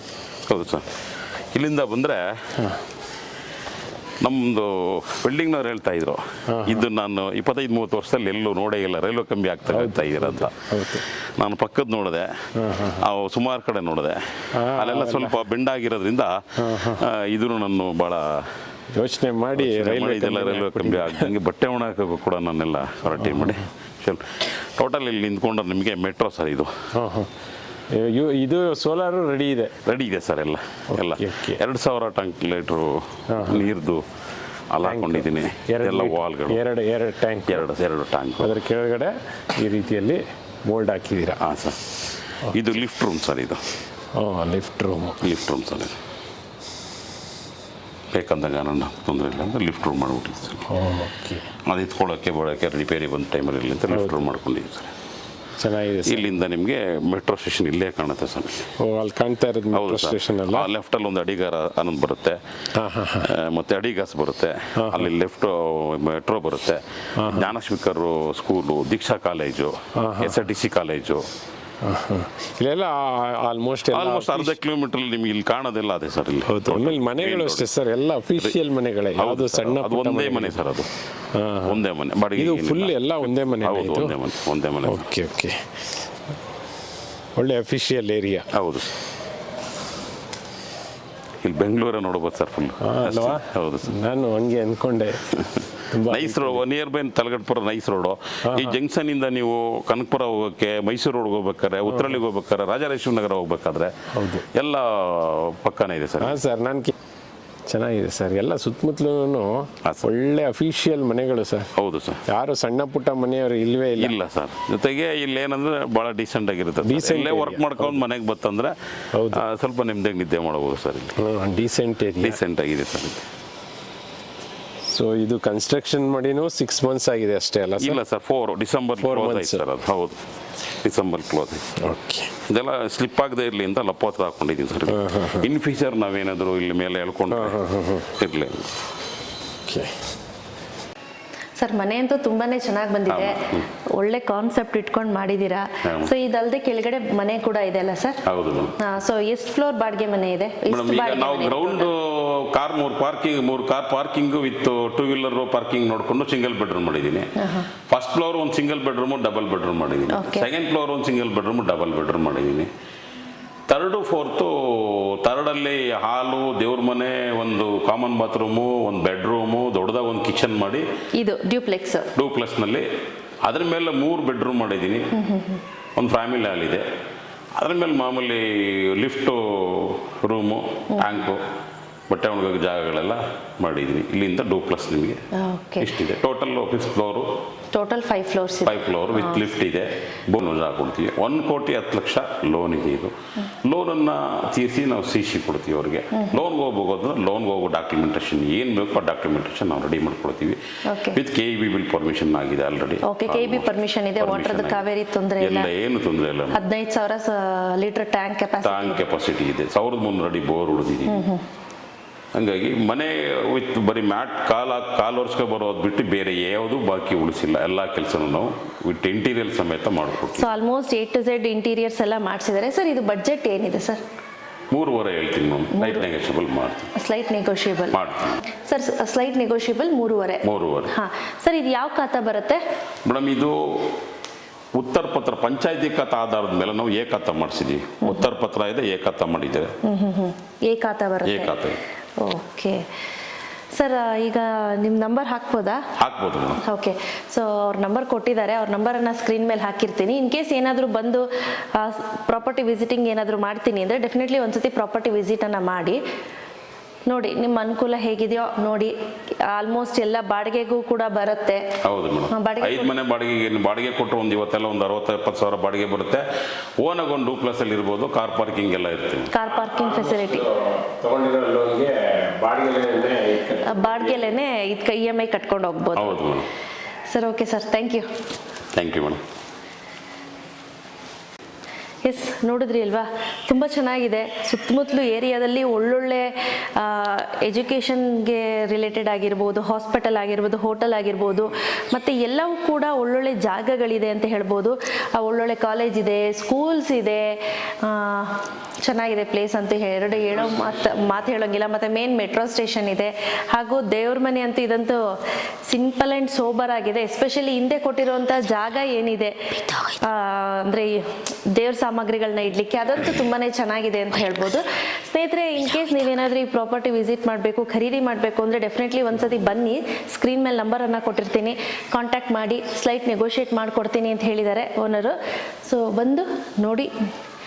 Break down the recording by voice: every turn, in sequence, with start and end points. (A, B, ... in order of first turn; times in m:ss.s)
0:00.5-0:00.9 A
0:01.5-0:02.6 A
0:02.6-0:02.8 B
0:04.2-0:10.6 A
0:06.5-0:06.9 B
0:09.7-0:11.0 B
0:11.4-0:18.5 A
0:12.5-0:13.0 B
0:14.5-0:15.4 B
0:16.6-0:17.0 B
0:18.9-0:21.3 B
0:19.6-0:26.7 A
0:23.2-0:23.6 B
0:26.9-0:27.3 B
0:27.9-0:29.7 B
0:29.8-0:34.0 A
0:30.9-0:31.6 B
0:33.3-0:33.7 B
0:34.7-0:36.6 A
0:34.8-0:37.7 B
0:37.5-0:38.5 A
0:38.4-0:41.4 B
0:41.4-0:41.8 A
0:42.5-0:43.6 A
0:44.1-0:45.3 B
0:45.2-0:46.0 A
0:48.1-0:50.7 A
0:50.7-0:51.5 B
0:51.6-0:54.9 A
0:53.9-0:54.3 B
0:55.6-0:56.3 B
0:56.0-0:58.7 A
0:58.8-1:00.7 B
0:59.7-1:02.4 A
1:02.7-1:03.3 B
1:03.2-1:11.2 A
1:04.8-1:05.1 B
1:07.2-1:07.5 B
1:09.9-1:10.4 B
1:11.8-1:14.5 B
1:13.9-1:17.7 A
1:16.5-1:20.6 B
1:19.1-1:20.9 A
1:21.3-1:21.8 B
1:21.6-1:25.1 A
1:22.4-1:24.2 B
1:24.8-1:26.1 B
1:27.4-1:28.5 B
1:28.5-1:28.9 A
1:31.4-1:33.9 A
1:32.8-1:35.3 B
1:35.4-1:46.4 A
1:35.9-1:36.6 B
1:38.4-1:38.8 B
1:41.9-1:42.2 B
1:44.1-1:44.4 B
1:46.2-1:46.9 B
1:47.6-1:51.7 B
1:49.8-1:50.1 A
1:51.8-1:52.2 A
1:52.2-1:54.1 B
1:54.0-1:58.8 A
1:56.8-1:58.0 B
1:59.1-1:59.4 B
1:59.3-2:01.2 A
2:01.2-2:02.4 B
2:02.2-2:03.3 A
2:04.9-2:08.0 B
2:07.8-2:10.2 A
2:09.0-2:09.6 B
2:10.8-2:11.7 A
2:11.8-2:12.4 B
2:12.5-2:17.6 A
2:14.9-2:15.5 B
2:17.3-2:18.1 B
2:18.1-2:18.7 A
2:19.6-2:19.9 B
2:21.6-2:28.2 C
2:23.1-2:23.7 A
2:25.8-2:26.1 A
2:28.2-2:28.8 A
2:28.8-2:31.9 C
2:30.7-2:37.3 A
2:37.4-2:37.7 C
2:37.9-2:42.7 A
2:40.1-2:40.5 C
2:43.7-2:50.8 A
2:51.2-2:52.1 C
2:52.1-2:52.9 A
2:53.4-2:55.1 A
2:55.1-2:55.6 C
2:56.0-2:56.8 A
2:57.6-3:01.4 A
3:02.1-3:05.2 A
3:05.3-3:05.9 C
3:05.8-3:07.3 A
3:07.7-3:09.4 C
3:08.6-3:13.1 A
3:13.6-3:20.6 A
3:20.8-3:21.2 C
3:21.1-3:24.8 A
3:23.0-3:25.7 C
3:25.4-3:26.6 A
3:26.5-3:29.0 C
3:28.6-3:31.2 A
3:31.0-3:31.4 C
3:32.3-3:40.5 A
3:40.4-3:44.0 C
3:44.7-3:46.9 A
3:45.7-3:46.0 C
3:46.9-3:52.6 C
3:47.9-3:48.4 A
3:50.4-3:50.9 A
3:53.0-3:53.9 A
3:54.8-3:59.7 A
3:59.8-4:01.5 C
4:01.2-4:01.8 A
4:02.2-4:02.8 C
4:03.7-4:05.8 C
4:06.0-4:06.6 A
4:06.6-4:16.0 C
4:17.1-4:21.6 C
4:21.8-4:26.2 A
4:22.3-4:22.9 C
4:26.8-4:29.3 A
4:29.3-4:30.4 C
4:29.5-4:34.3 B
4:33.6-4:36.2 C
4:35.9-4:36.5 A
4:37.1-4:38.1 C
4:38.7-4:39.2 A
4:42.0-5:26.9 C